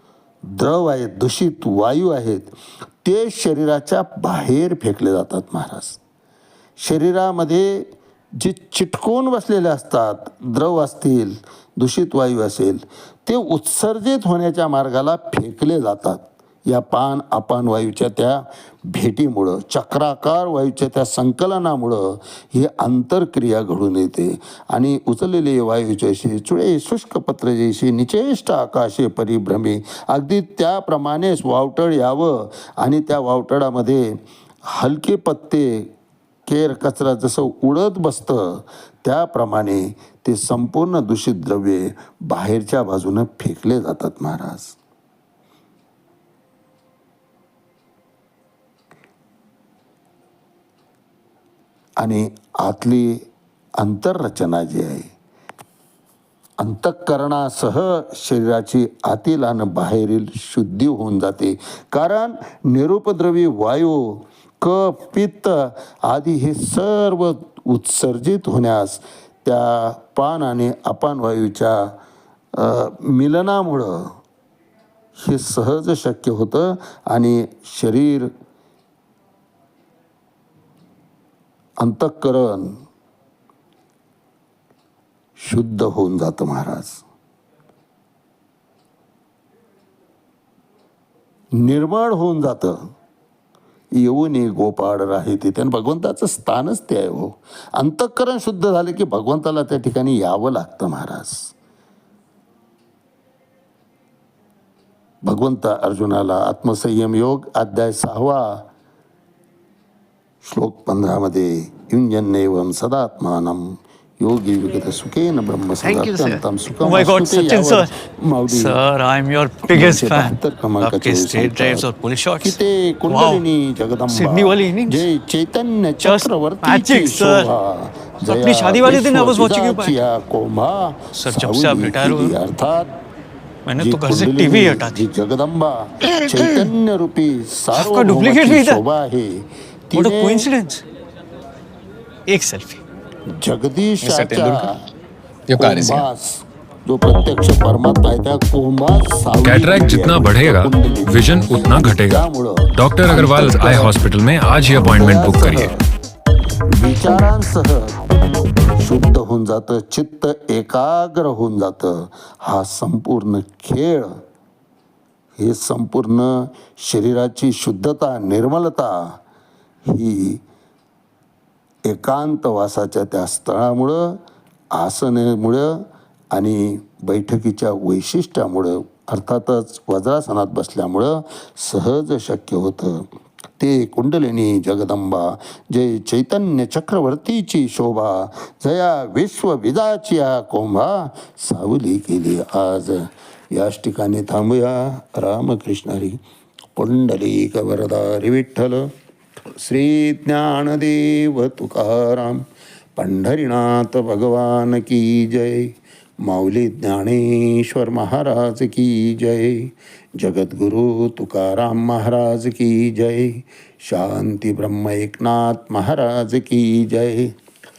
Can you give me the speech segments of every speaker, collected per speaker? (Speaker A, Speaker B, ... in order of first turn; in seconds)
Speaker A: 0.5-2.5, 3.0-6.0, 6.8-7.9, 8.4-34.1, 34.7-35.9, 36.5-44.8, 52.0-53.2, 53.8-55.1, 56.6-71.9, 72.5-74.1, 75.2-78.3, 81.8-82.7, 85.4-87.0, 91.6-92.8, 94.0-101.5, 105.2-108.6, 110.4-118.8, 119.7-121.9, 122.4-132.9, 133.8-140.5, 143.4-144.7, 145.6-153.9, 154.9-155.8, 156.7-157.9, 158.8-164.1, 165.4-168.9, 169.9-170.4, 171.9-174.2, 174.8-183.1, 183.6-196.2, 196.8-198.9, 199.5-202.4, 203.0-205.7, 206.2-217.3
Speaker B: 115.8-117.9, 118.5-123.4, 124.1-125.0, 126.0-127.5, 128.3-130.0, 131.2-132.3, 133.7-135.0, 137.7-138.8, 139.9-140.8, 142.3-142.8
Speaker C: 144.0-144.7, 145.5-146.1, 153.2-153.7
Speaker D: 149.4-155.7